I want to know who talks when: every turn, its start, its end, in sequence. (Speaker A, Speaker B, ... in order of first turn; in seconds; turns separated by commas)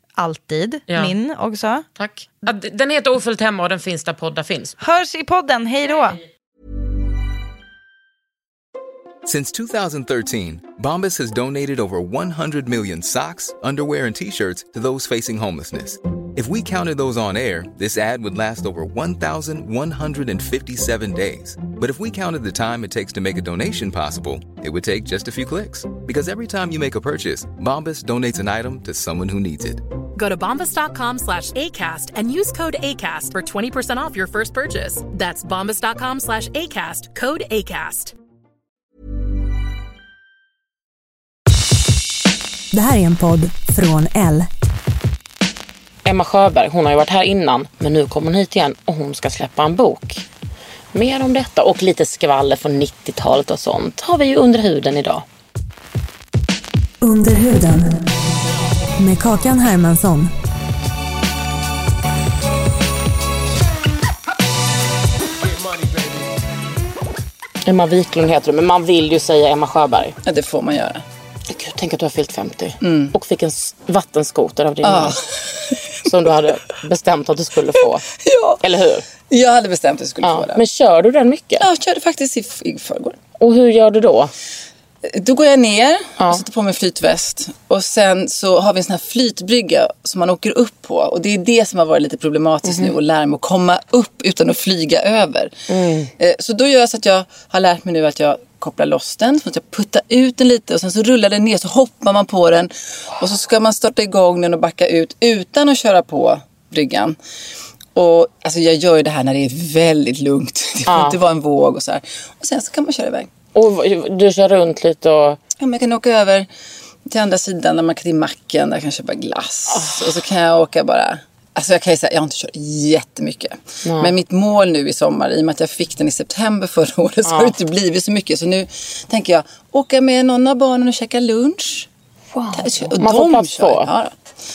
Speaker A: 0.2-1.9, Speaker B: 0.9-1.1, Speaker B: 2.0-4.8, Speaker A: 4.8-6.2, Speaker C: 9.3-29.8, Speaker D: 30.2-38.1, Speaker E: 42.7-44.5, Speaker B: 46.1-50.2, Speaker B: 50.9-55.2, Speaker E: 57.0-58.0, Speaker E: 59.0-60.3, Speaker B: 67.7-70.2, Speaker F: 70.2-71.0, Speaker B: 71.5-75.2, Speaker F: 72.8-73.2, Speaker F: 74.8-76.1, Speaker B: 76.0-78.1, Speaker F: 78.1-78.6, Speaker B: 78.6-79.0, Speaker F: 79.3-80.6, Speaker B: 80.2-81.7, Speaker F: 81.6-83.2, Speaker B: 83.4-84.3, Speaker F: 85.0-95.5, Speaker B: 92.7-92.9, Speaker B: 95.7-96.1, Speaker F: 96.2-107.2, Speaker F: 108.0-113.3, Speaker B: 110.9-111.2, Speaker B: 113.5-115.4, Speaker F: 115.6-116.5, Speaker F: 117.1-131.9, Speaker B: 119.7-120.1, Speaker B: 123.8-124.1, Speaker B: 127.2-127.5, Speaker B: 132.3-133.9, Speaker F: 132.5-134.1